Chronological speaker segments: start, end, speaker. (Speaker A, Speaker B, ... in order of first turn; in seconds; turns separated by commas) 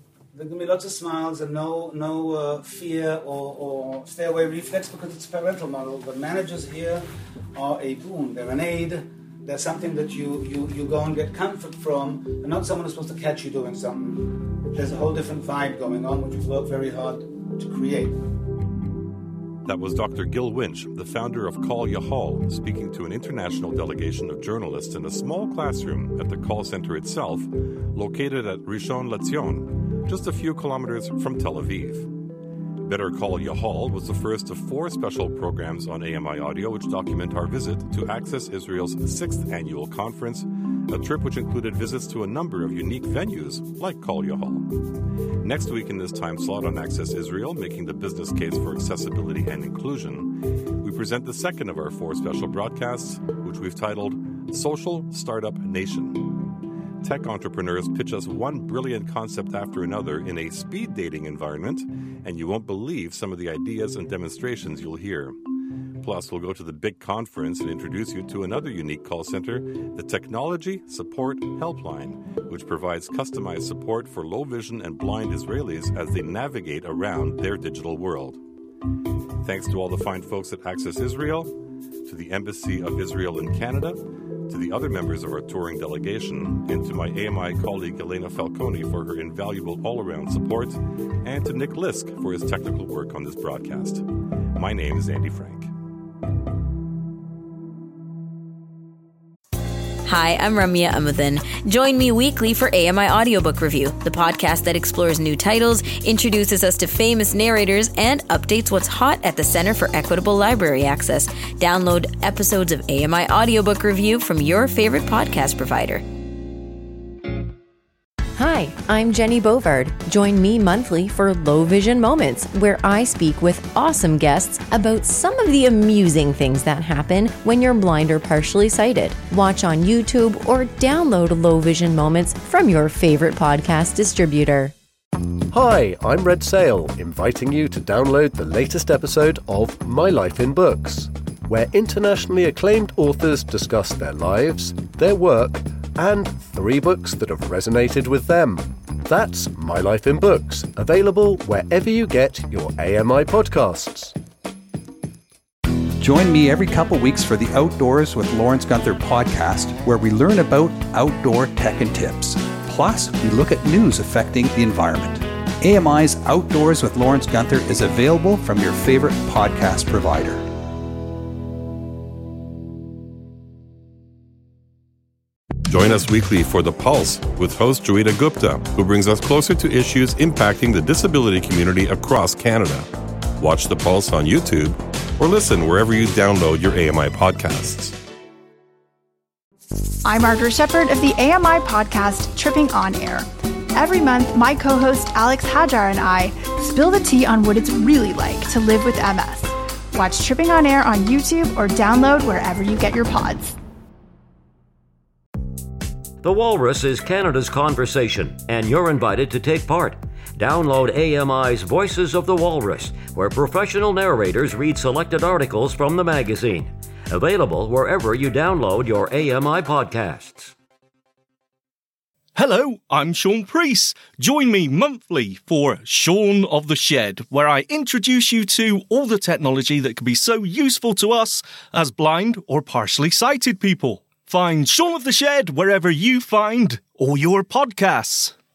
Speaker A: 0.3-18.2, Speaker B: 19.6-32.1, Speaker B: 32.8-44.7, Speaker B: 45.4-65.4, Speaker B: 66.0-78.4, Speaker B: 79.4-81.5, Speaker B: 82.0-95.7, Speaker C: 100.0-116.0, Speaker D: 118.3-134.7, Speaker E: 135.5-154.1, Speaker F: 156.0-170.4, Speaker B: 175.7-187.9, Speaker G: 190.0-203.6, Speaker H: 206.2-220.5, Speaker I: 222.3-238.3